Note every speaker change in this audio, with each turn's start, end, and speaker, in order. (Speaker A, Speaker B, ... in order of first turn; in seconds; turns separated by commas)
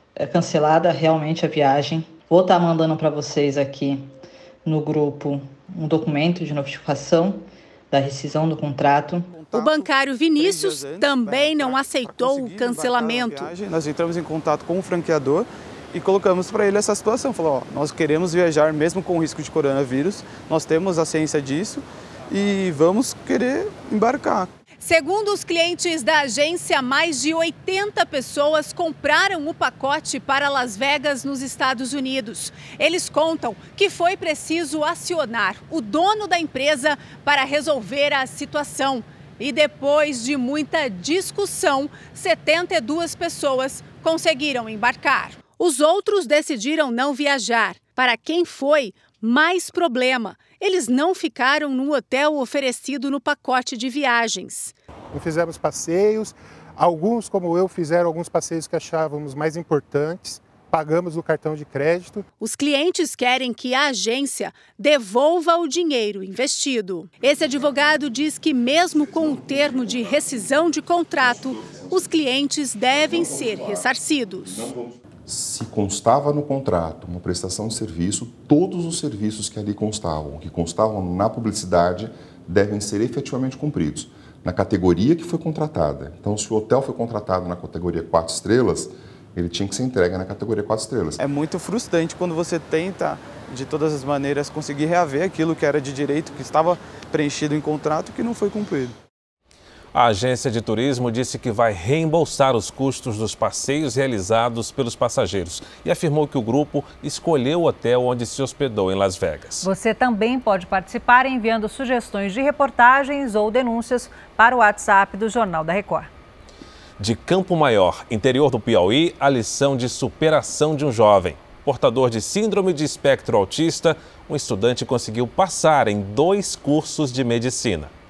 Speaker A: 0.1-9.3, Speaker B: 9.2-24.5, Speaker C: 9.5-13.5, Speaker C: 24.8-54.7, Speaker D: 55.1-62.2, Speaker C: 62.4-74.7, Speaker E: 75.3-91.2, Speaker B: 91.2-99.0, Speaker F: 99.9-109.6, Speaker G: 109.6-116.1, Speaker F: 117.0-127.9